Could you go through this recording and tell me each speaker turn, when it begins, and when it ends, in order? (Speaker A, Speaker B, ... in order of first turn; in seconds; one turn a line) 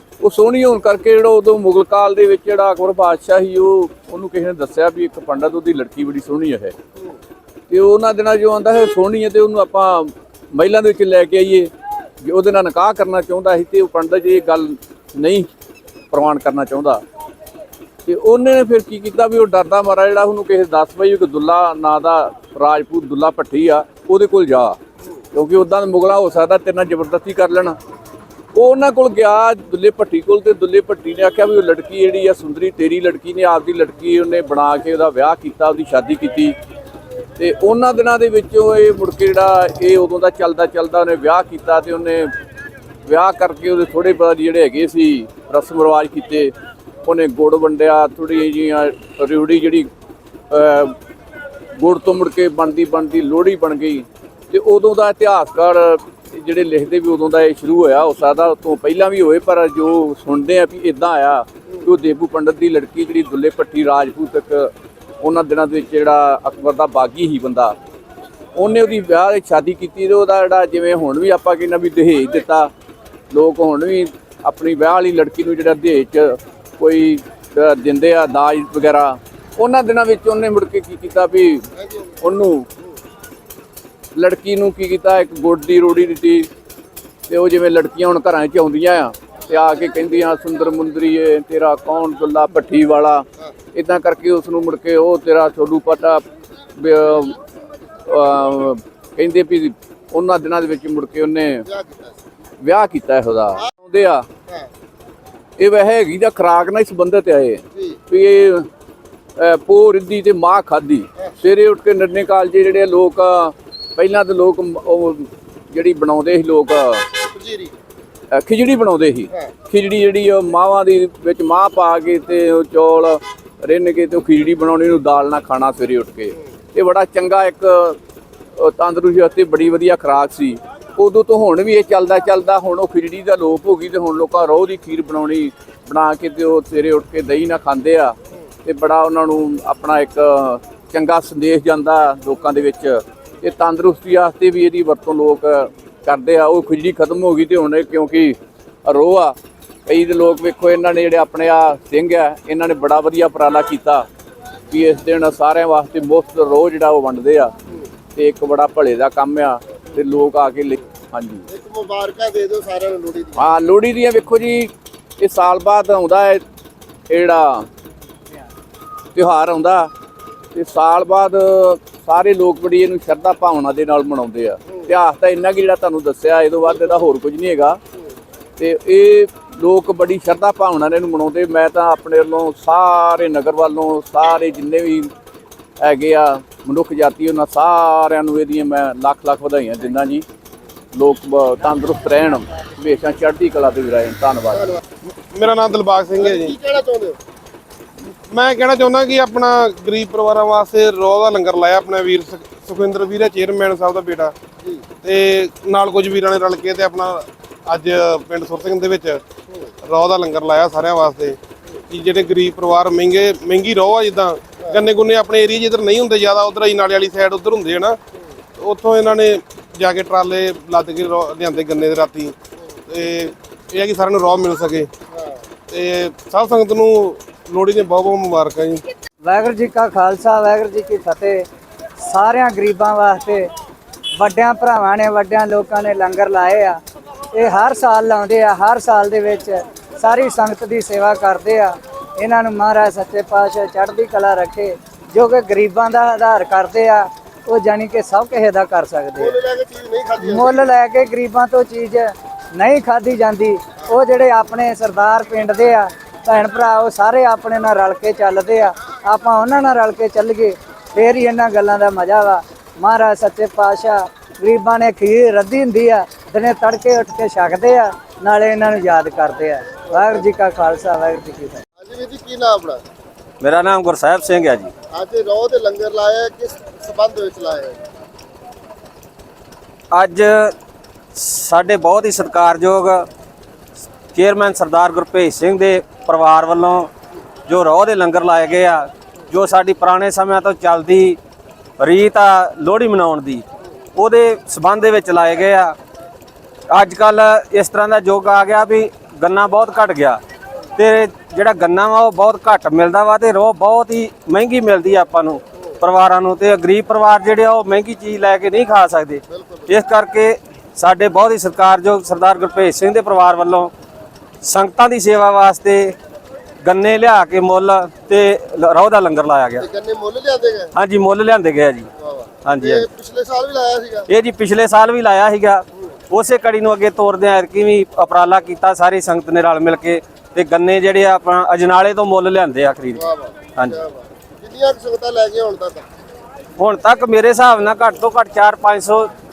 Speaker A: 0.2-6.8
Speaker A: 7.7-11.7
Speaker A: 12.2-15.5
Speaker A: 16.1-17.0
Speaker A: 18.1-24.8
Speaker A: 25.3-27.8
Speaker A: 28.6-36.6
Speaker A: 37.4-42.3
Speaker A: 43.1-46.5
Speaker A: 47.0-49.9
Speaker A: 50.5-51.0
Speaker A: 51.8-67.8
Speaker A: 68.6-72.7
Speaker A: 73.3-81.7
Speaker B: 81.8-82.1
Speaker A: 82.2-82.7
Speaker A: 84.2-86.5
Speaker A: 87.3-96.2
Speaker A: 96.8-97.4
Speaker A: 98.1-101.7
Speaker B: 101.7-102.2
Speaker A: 102.6-104.3
Speaker A: 105.6-108.7
Speaker B: 107.8-108.0
Speaker A: 109.4-117.0
Speaker B: 117.3-117.7
Speaker A: 118.3-128.0
Speaker A: 128.6-149.4
Speaker A: 149.9-154.1
Speaker A: 154.7-157.5
Speaker A: 158.2-161.4
Speaker B: 161.5-163.5
Speaker A: 163.4-166.4
Speaker A: 167.1-167.7
Speaker A: 169.2-169.9
Speaker A: 170.6-177.8
Speaker A: 178.6-185.1
Speaker A: 185.8-190.2
Speaker A: 190.9-194.8
Speaker C: 195.3-196.6
Speaker B: 196.2-197.2
Speaker C: 198.1-204.3
Speaker C: 205.0-209.2
Speaker C: 209.8-211.4
Speaker C: 211.9-218.0
Speaker C: 218.6-222.3
Speaker C: 222.9-224.9
Speaker C: 225.7-228.8
Speaker D: 229.2-231.4
Speaker D: 232.0-233.5
Speaker D: 234.2-236.8
Speaker D: 237.3-249.4
Speaker B: 249.2-250.7
Speaker D: 250.2-271.6
Speaker B: 269.9-270.2
Speaker B: 271.8-272.8
Speaker E: 273.4-274.7
Speaker B: 274.9-277.8
Speaker E: 279.9-280.5
Speaker E: 281.1-283.1
Speaker E: 284.1-286.9
Speaker E: 287.5-291.2
Speaker E: 291.8-293.4
Speaker E: 294.0-295.8
Speaker E: 296.7-300.2
Speaker E: 300.8-313.7
Speaker B: 309.3-309.7
Speaker E: 314.4-316.0
Speaker E: 316.6-319.6
Speaker B: 319.6-320.7
Speaker E: 320.7-321.9
Speaker B: 322.0-324.1
Speaker E: 322.4-322.9
Speaker E: 324.1-333.0
Speaker B: 332.9-335.9
Speaker E: 336.6-339.1